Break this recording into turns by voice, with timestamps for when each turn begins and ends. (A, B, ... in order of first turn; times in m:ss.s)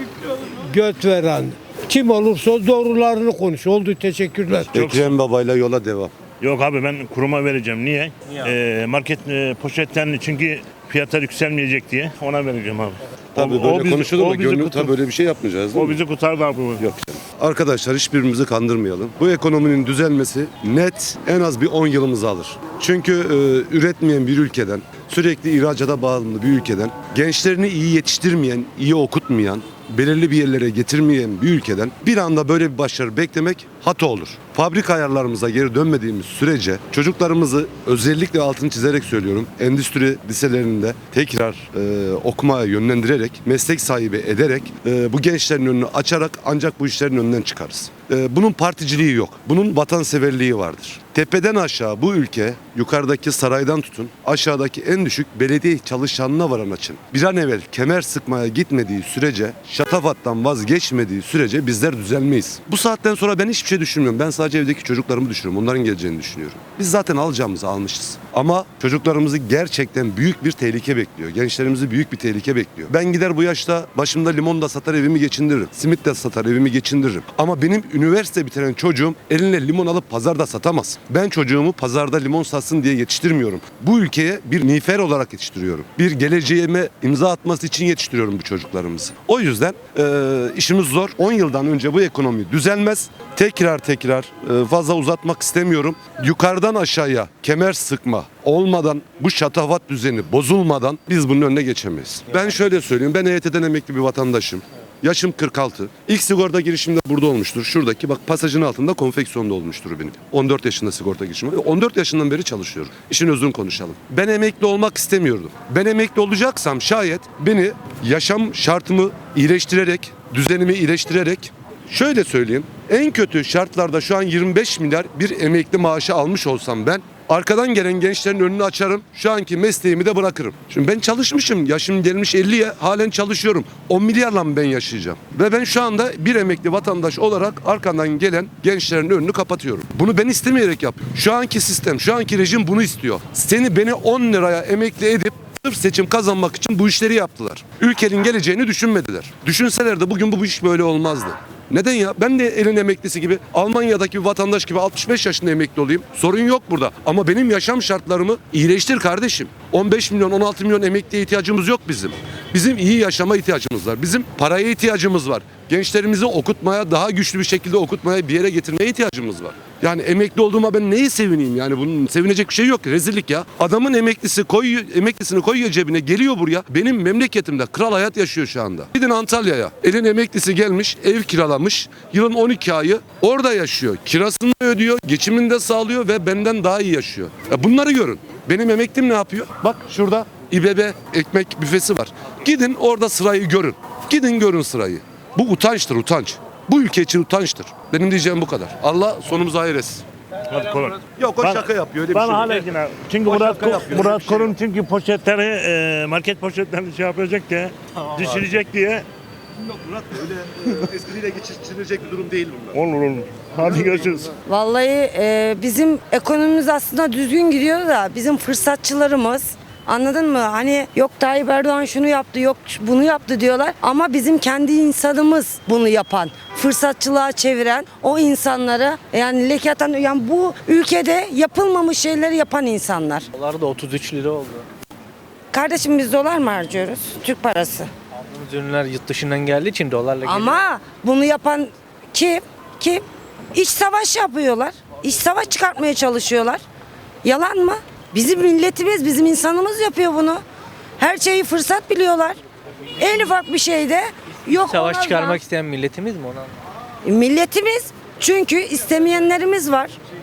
0:00.3-0:04.7 A
0:04.7-0:06.1 B
0:04.8-0:05.2 C
0:06.4-0:15.0 C
0:13.4-0:16.0 B
0:15.7-0:16.8 C
0:16.8-3:20.0 B
3:20.5-3:29.1 C
3:21.2-3:24.6 B
3:29.6-3:32.8 B
3:32.7-3:34.3 C
3:34.5-3:53.3 D
3:53.3-3:54.6 E
3:55.5-3:57.9 D
3:58.3-4:00.6 E
4:00.3-4:06.6 D
4:07.2-4:10.4 D
4:11.0-4:12.4 D
4:13.0-4:15.4 D
4:14.6-4:16.5 E
4:17.1-4:20.0 D